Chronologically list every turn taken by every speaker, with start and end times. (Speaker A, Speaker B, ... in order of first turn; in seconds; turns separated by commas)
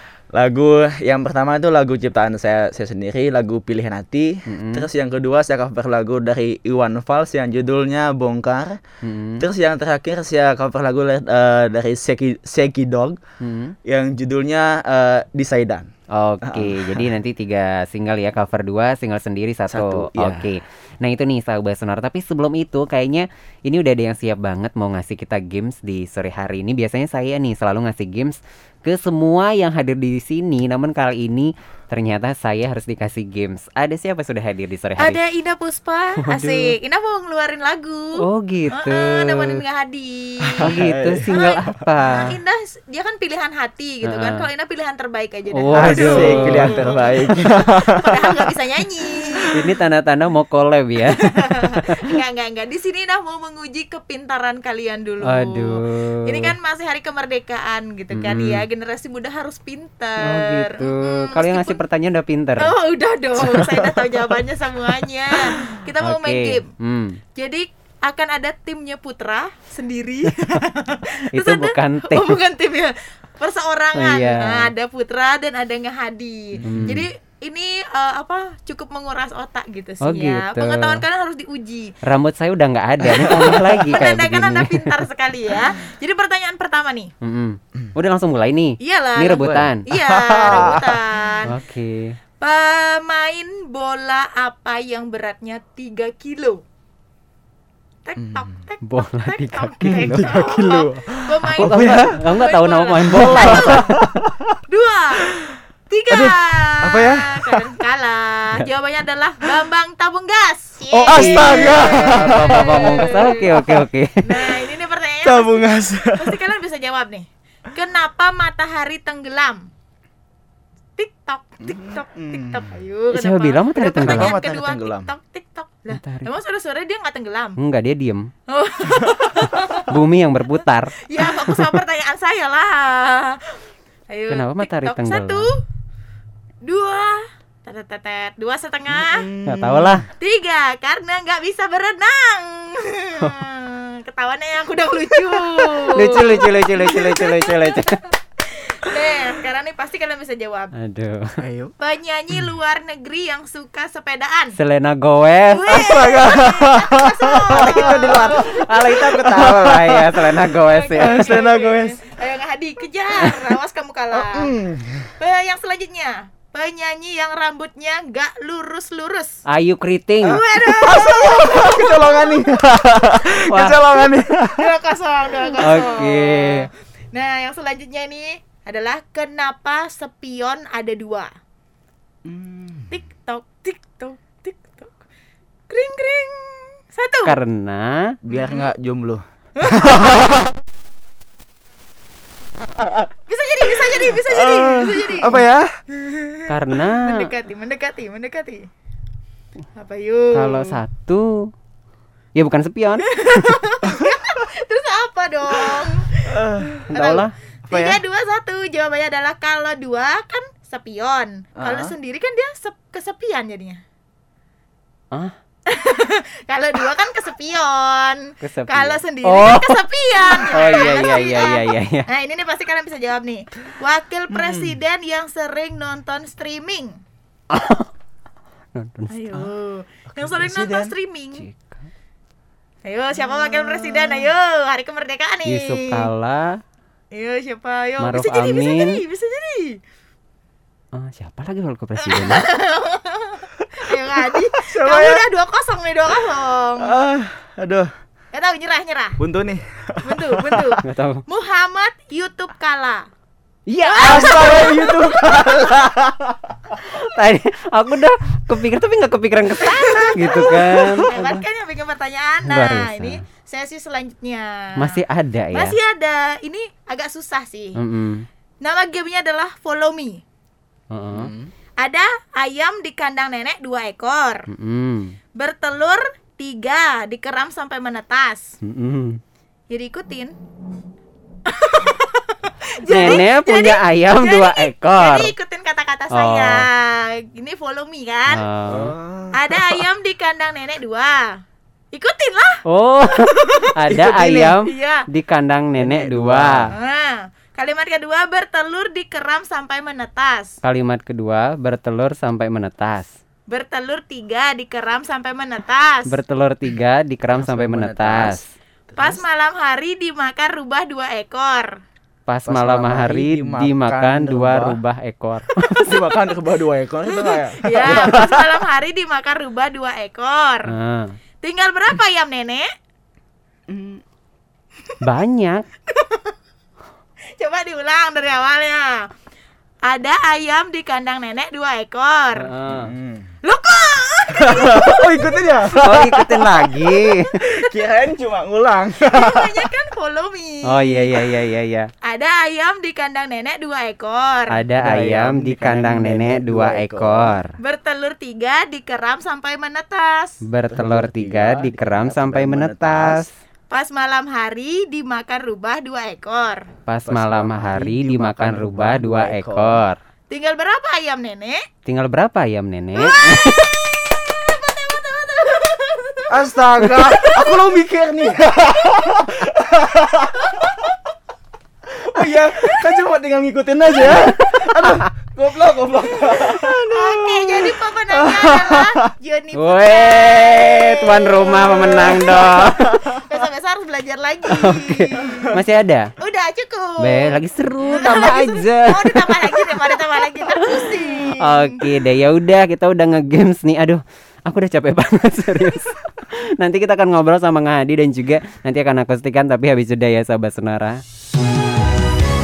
Speaker A: 0.3-8.8, Speaker B: 4.5-4.9, Speaker B: 9.0-9.4, Speaker A: 9.4-13.2, Speaker B: 13.4-13.8, Speaker A: 13.8-15.9, Speaker B: 16.1-35.2, Speaker A: 16.4-17.1, Speaker A: 19.7-20.5, Speaker C: 35.0-49.5, Speaker B: 36.2-36.7, Speaker B: 38.2-39.6, Speaker A: 40.5-41.8, Speaker B: 40.6-42.4, Speaker B: 44.0-44.5, Speaker B: 45.5-47.0, Speaker A: 45.7-48.5, Speaker A: 49.2-49.7, Speaker B: 49.5-52.2, Speaker C: 51.1-61.8, Speaker B: 55.2-56.5, Speaker B: 58.1-58.6, Speaker B: 60.2-62.7, Speaker C: 62.6-66.7, Speaker A: 63.4-64.3, Speaker B: 66.0-67.2, Speaker C: 67.3-81.9, Speaker B: 71.3-72.4, Speaker B: 73.9-74.7, Speaker A: 76.6-76.9, Speaker B: 76.6-77.1, Speaker B: 80.0-81.0, Speaker B: 82.0-84.9, Speaker A: 83.1-84.0, Speaker C: 83.3-87.1, Speaker B: 87.2-89.8, Speaker C: 88.8-91.6, Speaker A: 89.4-91.0, Speaker B: 91.5-92.2, Speaker C: 92.4-96.6, Speaker C: 98.1-103.9, Speaker A: 98.2-98.5, Speaker B: 98.8-100.3, Speaker A: 99.8-102.3, Speaker B: 101.5-103.9, Speaker A: 103.0-104.6, Speaker C: 104.7-105.3, Speaker A: 105.2-105.6, Speaker C: 105.9-119.7, Speaker A: 106.1-107.8, Speaker A: 110.9-113.8, Speaker B: 111.1-114.5, Speaker A: 115.2-116.4, Speaker C: 121.0-127.6, Speaker A: 121.6-122.8, Speaker B: 123.1-124.4, Speaker A: 123.8-125.1, Speaker B: 125.9-126.3, Speaker B: 127.6-128.3, Speaker C: 128.5-129.9, Speaker B: 129.9-131.8, Speaker C: 131.0-135.6, Speaker B: 134.3-135.5, Speaker C: 136.6-139.3, Speaker A: 138.9-140.1, Speaker B: 139.5-140.1, Speaker C: 140.2-150.7, Speaker B: 145.4-148.0, Speaker B: 150.8-151.2, Speaker A: 151.4-151.7, Speaker C: 151.8-154.6, Speaker B: 154.6-155.7, Speaker C: 155.5-159.3, Speaker A: 155.7-162.0, Speaker B: 157.5-161.4, Speaker C: 160.5-164.5, Speaker A: 164.1-165.1, Speaker C: 165.2-169.4, Speaker B: 169.5-170.4, Speaker C: 170.2-173.2, Speaker A: 170.2-174.7, Speaker B: 173.5-173.8, Speaker C: 174.0-181.3, Speaker B: 175.6-176.7, Speaker A: 182.2-182.9, Speaker C: 182.9-184.9, Speaker C: 185.7-187.4, Speaker B: 187.2-188.2, Speaker A: 188.2-190.4, Speaker C: 188.3-188.7, Speaker C: 189.6-190.2, Speaker C: 193.3-198.7, Speaker A: 193.8-195.7, Speaker B: 196.5-197.3, Speaker C: 199.8-200.8, Speaker B: 200.3-201.5, Speaker B: 202.3-203.6, Speaker C: 203.0-206.4, Speaker A: 206.2-206.9, Speaker B: 206.9-207.3, Speaker C: 206.9-213.8, Speaker A: 207.7-208.0, Speaker A: 211.6-211.9, Speaker C: 215.7-227.0, Speaker B: 218.4-222.1, Speaker A: 224.3-224.8, Speaker B: 227.5-227.9, Speaker B: 228.8-229.2, Speaker C: 229.1-231.5, Speaker A: 230.1-230.9, Speaker B: 231.4-231.8, Speaker C: 232.8-236.1, Speaker B: 235.4-236.6, Speaker C: 237.1-239.8, Speaker B: 238.0-239.0, Speaker B: 240.9-242.5, Speaker C: 242.0-246.9, Speaker A: 244.5-245.3, Speaker A: 246.8-247.9, Speaker C: 248.3-249.2, Speaker A: 249.2-250.8, Speaker C: 250.0-253.1, Speaker B: 250.8-251.2, Speaker B: 253.7-254.7, Speaker C: 253.8-255.4, Speaker A: 254.0-256.6, Speaker B: 256.8-261.4, Speaker C: 259.6-265.0, Speaker B: 262.4-263.2, Speaker B: 264.8-265.8, Speaker C: 265.5-267.8, Speaker B: 267.8-268.3, Speaker C: 268.6-270.2, Speaker B: 270.9-271.3, Speaker A: 271.1-271.5, Speaker C: 271.8-274.5, Speaker B: 274.5-275.2, Speaker C: 275.4-278.6, Speaker B: 278.6-279.2, Speaker C: 279.7-280.4, Speaker C: 281.5-288.5, Speaker B: 282.9-285.3, Speaker B: 286.1-286.7, Speaker B: 288.3-288.9, Speaker A: 288.7-289.8, Speaker C: 289.3-291.4, Speaker C: 291.9-292.6, Speaker B: 292.7-296.7, Speaker C: 293.4-293.7, Speaker A: 293.6-294.6, Speaker C: 294.6-295.1, Speaker A: 295.8-296.7, Speaker C: 296.6-300.6, Speaker B: 300.6-303.1, Speaker C: 303.5-306.2, Speaker B: 306.1-308.5, Speaker A: 307.3-309.2, Speaker C: 309.0-311.7, Speaker B: 312.3-316.0, Speaker A: 312.4-314.8, Speaker A: 315.8-318.6, Speaker C: 317.1-320.8, Speaker B: 320.6-321.2, Speaker C: 321.4-322.7, Speaker A: 323.7-324.0, Speaker B: 325.0-325.7, Speaker C: 325.9-326.3, Speaker C: 327.4-329.1, Speaker C: 329.9-332.5, Speaker B: 332.4-332.9, Speaker A: 332.7-333.3, Speaker C: 333.4-335.1, Speaker A: 334.3-339.7, Speaker B: 335.7-337.4, Speaker C: 339.1-341.3, Speaker B: 340.6-341.9, Speaker C: 342.0-344.6, Speaker B: 344.5-347.5, Speaker A: 344.8-347.4, Speaker C: 347.6-350.4, Speaker B: 350.4-353.3, Speaker A: 350.7-353.3, Speaker C: 353.7-356.7, Speaker B: 356.9-360.0, Speaker A: 357.1-359.8, Speaker C: 360.3-361.6, Speaker B: 361.9-363.7, Speaker C: 362.9-367.7, Speaker A: 366.3-370.9, Speaker A: 371.9-379.1, Speaker B: 374.2-375.0, Speaker C: 376.2-385.6, Speaker B: 379.5-383.0, Speaker A: 381.6-383.2, Speaker B: 384.5-386.1, Speaker A: 385.2-385.5, Speaker C: 386.2-391.8, Speaker B: 387.0-401.0